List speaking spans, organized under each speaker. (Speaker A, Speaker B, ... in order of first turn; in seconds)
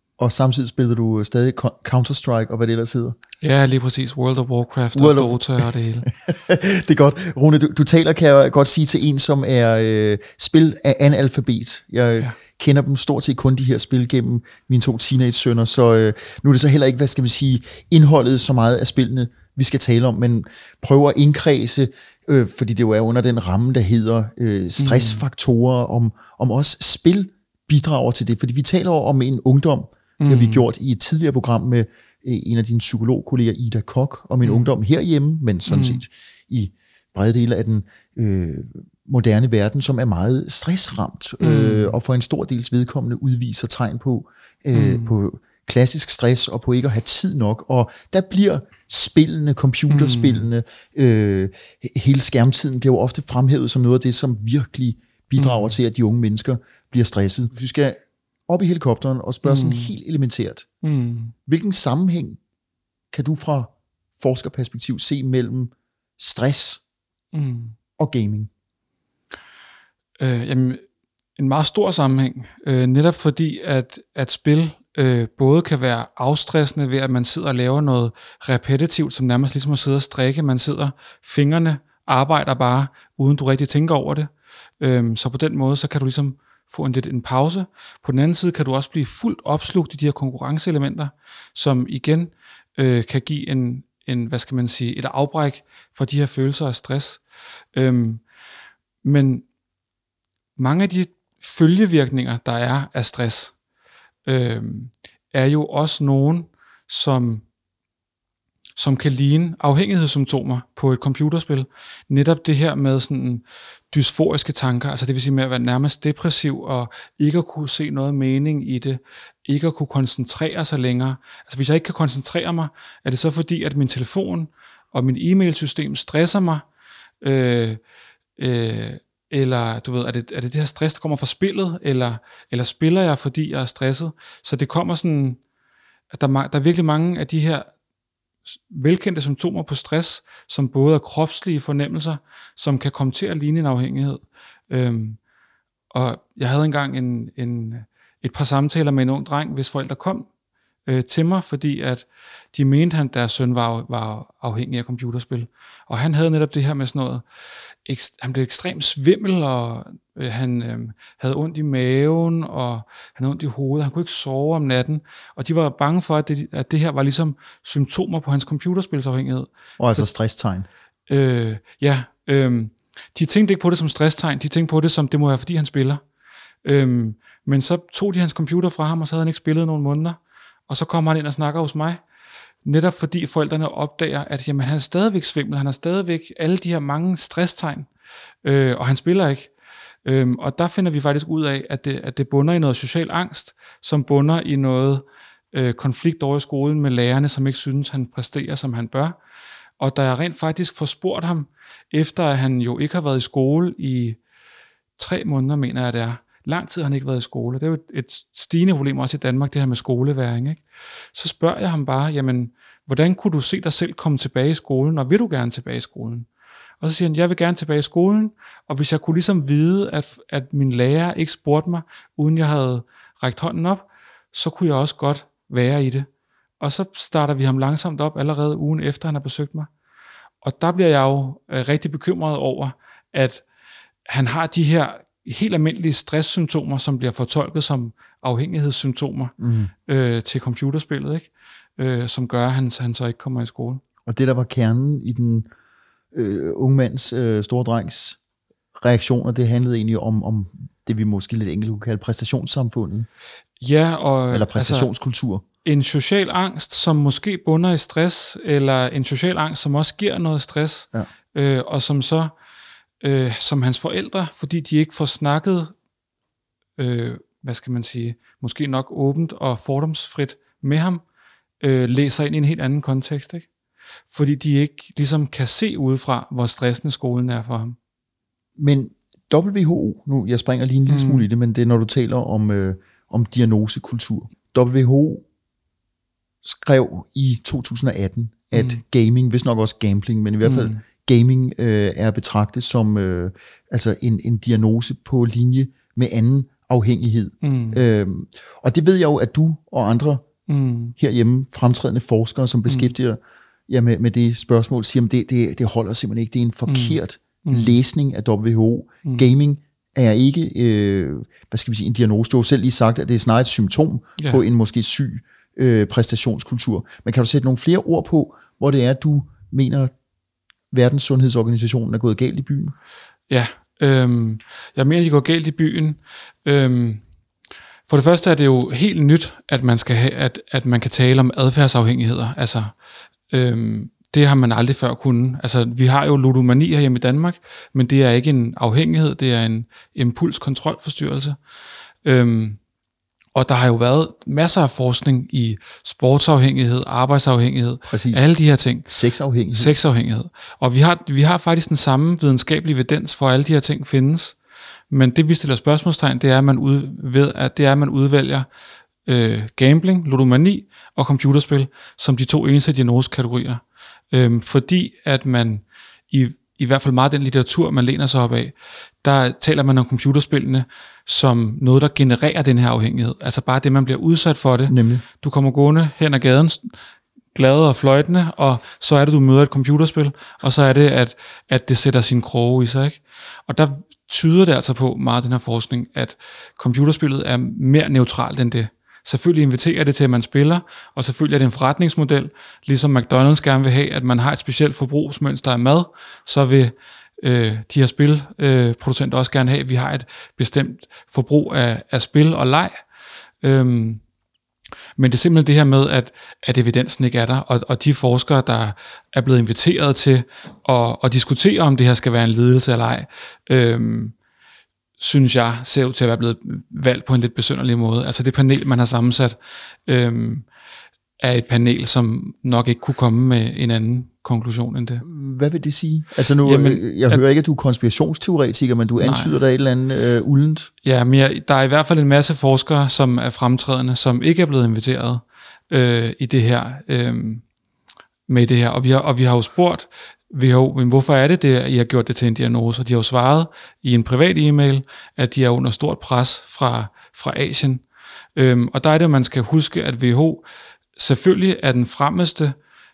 Speaker A: 0.2-3.2, 4.9-60.7, 61.5-62.4, 63.1-66.8, 68.0-68.5, 169.8-170.7, 239.4-239.7, 244.1-245.5, 246.1-248.2, 248.8-253.1, 254.3-255.4, 278.6-285.2, 286.4-300.2, 301.0-319.9, 320.7-322.8, 347.9-348.3, 348.9-349.8, 374.7-375.0, 425.0-430.7
Speaker B: 3.4-6.1, 24.8-25.2, 30.2-30.6, 34.4-34.7, 35.7-36.0, 41.4-42.0, 44.7-45.1, 49.9-50.5, 55.4-55.7, 59.4-59.9, 60.8-61.3, 67.3-67.8, 70.2-70.8, 71.4-97.2, 97.8-98.2, 99.0-99.5, 100.6-103.5, 104.3-107.4, 108.8-126.7, 127.2-127.8, 128.4-135.4, 136.1-137.7, 138.7-145.2, 145.9-150.3, 150.9-157.2, 157.8-170.1, 171.1-176.0, 176.7-182.0, 182.7-187.9, 188.4-189.5, 190.1-199.2, 199.8-204.2, 205.0-210.6, 211.1-216.3, 216.8-226.1, 226.6-229.7, 230.4-233.4, 234.1-239.3, 239.9-243.8, 253.6-254.9, 255.6-262.3, 263.0-265.7, 266.8-271.0, 271.6-273.5, 274.1-277.8, 280.9-281.3, 288.6-288.8, 290.4-290.8, 297.4-297.9, 300.5-300.9, 302.7-302.9, 306.7-307.8, 314.2-314.4, 323.3-327.0, 327.9-332.7, 333.3-341.4, 342.0-342.6, 343.4-348.9, 349.5-354.4, 354.9-358.5, 359.1-376.7, 377.3-402.8, 403.4-404.0, 405.0-414.1, 415.0-420.5, 421.2-425.1, 426.4-427.2, 429.0-429.3, 430.8-437.4, 438.3-447.8, 448.4-450.4, 451.0-452.6